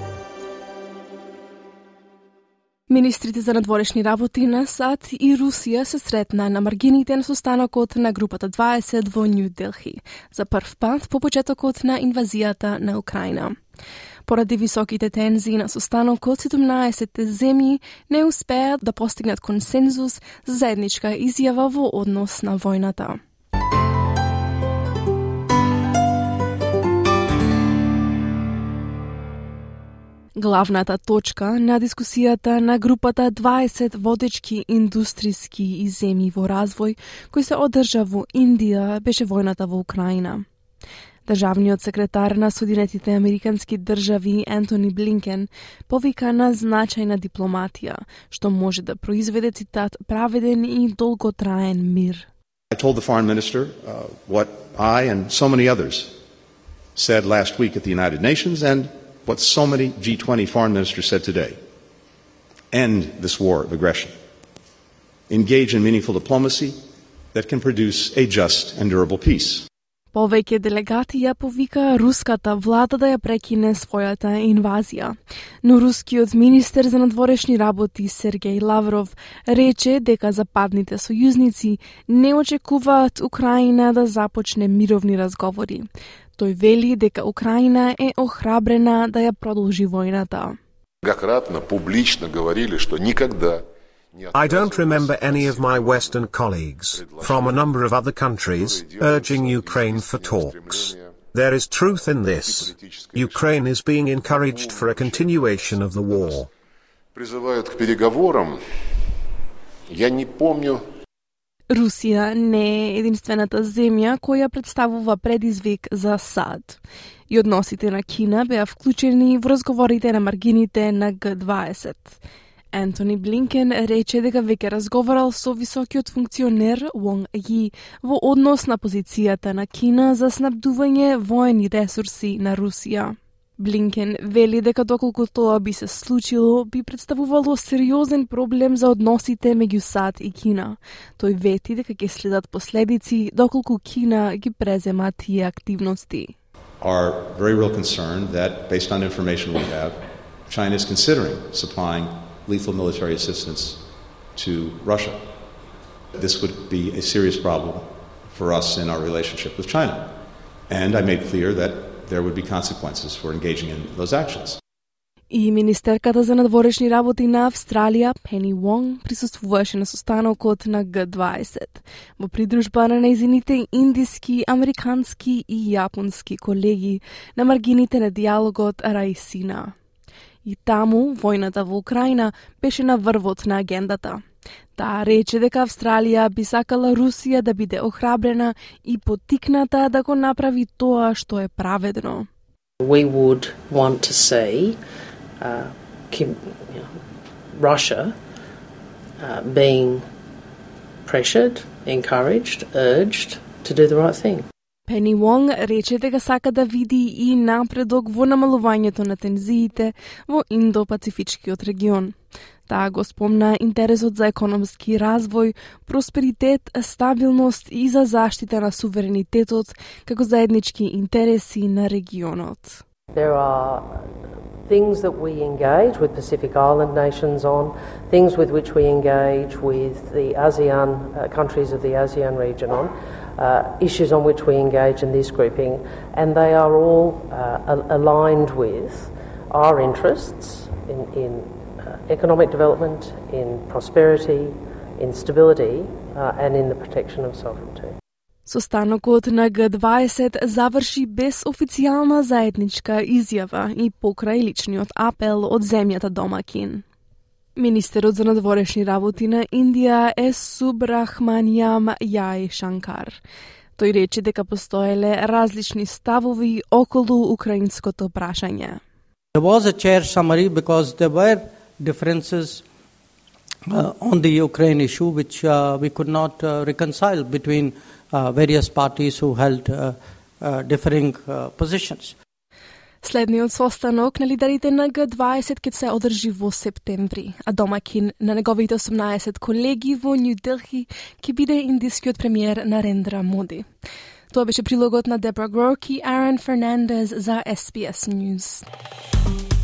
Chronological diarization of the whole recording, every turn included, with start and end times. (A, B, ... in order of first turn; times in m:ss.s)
0:02.9-0:13.6 A
0:14.2-0:23.2 A
0:30.4-0:40.4 A
0:41.2-0:52.3 A
0:52.7-0:56.1 B
0:57.0-1:01.6 B
1:02.7-1:04.1 B
1:05.3-1:06.8 B
1:07.3-1:09.7 B
1:10.1-1:30.6 A
1:31.0-1:41.2 C
1:34.3-1:46.5 D
1:42.0-1:43.6 C
1:44.2-1:46.5 C
1:47.1-1:48.6 C
1:49.9-1:50.8 C
1:51.7-2:02.2 A
2:02.7-2:26.3 A
2:26.8-2:33.8 B
2:34.3-2:35.2 B
2:36.1-2:40.1 B
2:40.7-2:44.6 B
2:45.3-2:59.7 A
3:00.4-3:04.2 A
3:04.8-3:12.3 A
3:12.8-3:14.8 E
3:15.4-3:16.9 E
3:17.5-3:18.1 E
3:19.2-3:20.0 E
3:21.1-3:24.4 E
3:24.9-3:32.1 A
3:32.7-3:42.8 A
3:43.1-3:44.0 E
3:44.7-4:07.9 E
4:08.4-4:16.8 A
4:17.6-4:23.2 A
4:23.8-4:28.8 A
4:29.3-4:32.6 F
4:33.7-4:42.2 F
4:43.0-4:53.7 A
4:54.3-4:58.6 A